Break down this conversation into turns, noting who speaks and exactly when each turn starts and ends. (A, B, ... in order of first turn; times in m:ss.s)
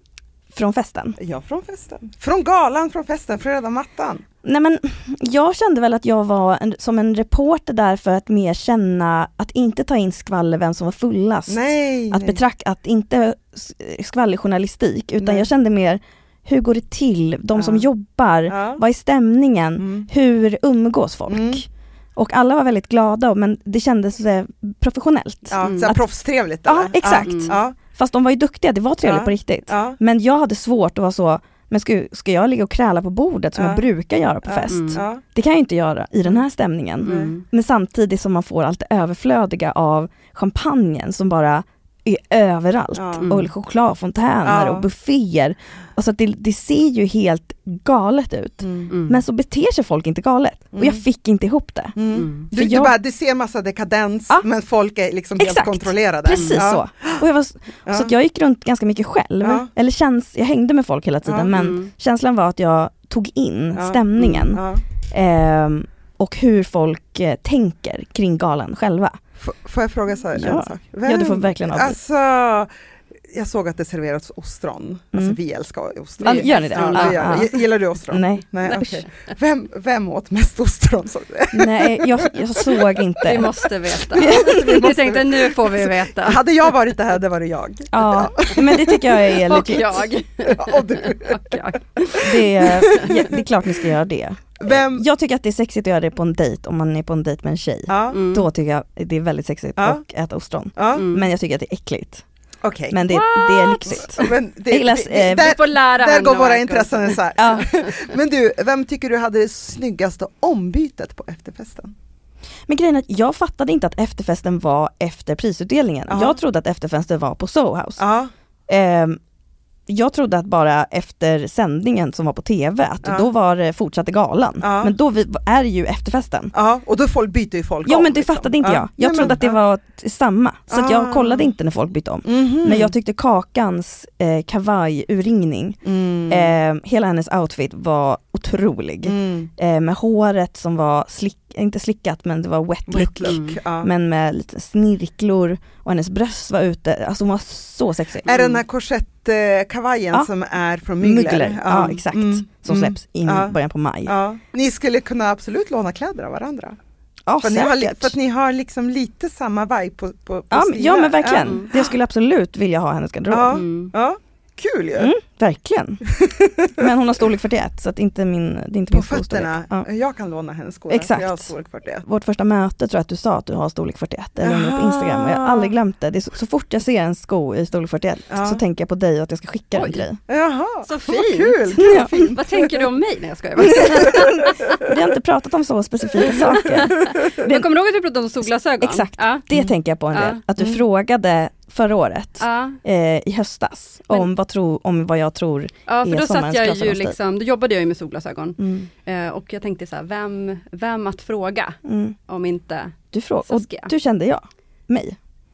0:00.5-0:01.2 A
0:01.2-0:04.2 B
0:04.4-0:26.0 A
0:11.5-0:12.4 B
0:15.2-0:15.5 B
0:17.6-0:17.9 B
0:18.5-0:18.8 B
0:19.8-0:20.1 B
0:21.3-0:21.6 B
0:25.5-0:27.8 B
0:25.6-0:25.9 C
0:26.7-0:53.0 A
0:27.2-0:27.6 C
0:29.0-0:30.0 B
0:33.6-0:33.8 B
0:34.5-0:35.2 B
0:34.7-0:35.0 C
0:37.0-0:37.4 C
0:37.0-0:37.4 B
0:43.0-0:43.3 B
0:43.2-0:43.5 C
0:44.4-0:44.9 B
0:48.6-0:48.9 B
0:48.9-0:49.2 C
0:50.7-0:51.0 B
0:52.0-0:57.2 B
0:52.1-0:52.5 C
0:55.4-1:09.2 A
0:56.3-0:56.7 C
0:57.9-0:58.1 B
0:59.4-0:59.7 B
1:01.3-1:01.7 B
1:01.5-1:01.9 C
1:03.8-1:04.8 B
1:09.4-1:12.7 B
1:10.3-1:12.0 A
1:13.3-1:22.8 B
1:16.2-1:17.5 C
1:16.2-1:17.6 A
1:18.1-1:19.0 A
1:21.5-1:23.5 A
1:23.2-1:26.5 C
1:24.1-1:24.9 A
1:24.2-1:29.3 B
1:27.9-1:30.1 A
1:29.4-1:33.2 C
1:30.4-1:33.4 B
1:32.2-1:42.2 A
1:34.6-1:35.1 B
1:37.9-1:38.2 B
1:38.1-1:38.5 C
1:40.8-1:41.1 B
1:40.9-1:41.3 C
1:42.6-1:43.0 B
1:42.9-1:45.5 A
1:43.0-1:44.3 C
1:43.9-1:51.9 B
1:45.3-1:47.6 C
1:47.4-1:47.7 A
1:52.7-1:58.0 A
1:56.1-1:56.4 B
1:58.0-1:58.3 B
1:58.7-1:59.2 A
1:59.9-2:06.5 A
2:04.6-2:04.9 B
2:06.5-2:09.6 B
2:07.8-2:28.5 A
2:10.7-2:11.5 B
2:12.3-2:12.9 B
2:15.8-2:16.6 B
2:19.0-2:19.5 B
2:22.9-2:23.9 B
2:23.3-2:23.6 C
2:28.3-2:33.5 B
2:31.0-2:34.2 A
2:34.1-2:36.8 B
2:37.3-2:38.1 A
2:37.4-2:41.9 B
2:40.5-2:43.6 A
2:43.3-2:45.1 B
2:43.5-2:43.9 C
2:45.0-2:46.1 A
2:46.1-2:46.8 B
2:46.8-2:49.9 A
2:48.9-2:52.0 B
2:50.9-2:51.5 A
2:52.0-3:00.2 A
2:54.4-2:55.7 B
2:58.3-2:58.6 B
2:59.8-3:00.1 C
3:00.3-3:02.8 B
3:00.8-3:04.8 C
3:01.8-3:02.1 A
3:03.6-3:07.7 A
3:06.6-3:09.5 C
3:08.8-3:17.2 A
3:10.1-3:10.4 C
3:12.4-3:12.8 C
3:15.9-3:23.9 C
3:18.6-3:18.9 A
3:21.8-3:22.2 A
3:23.1-3:25.2 A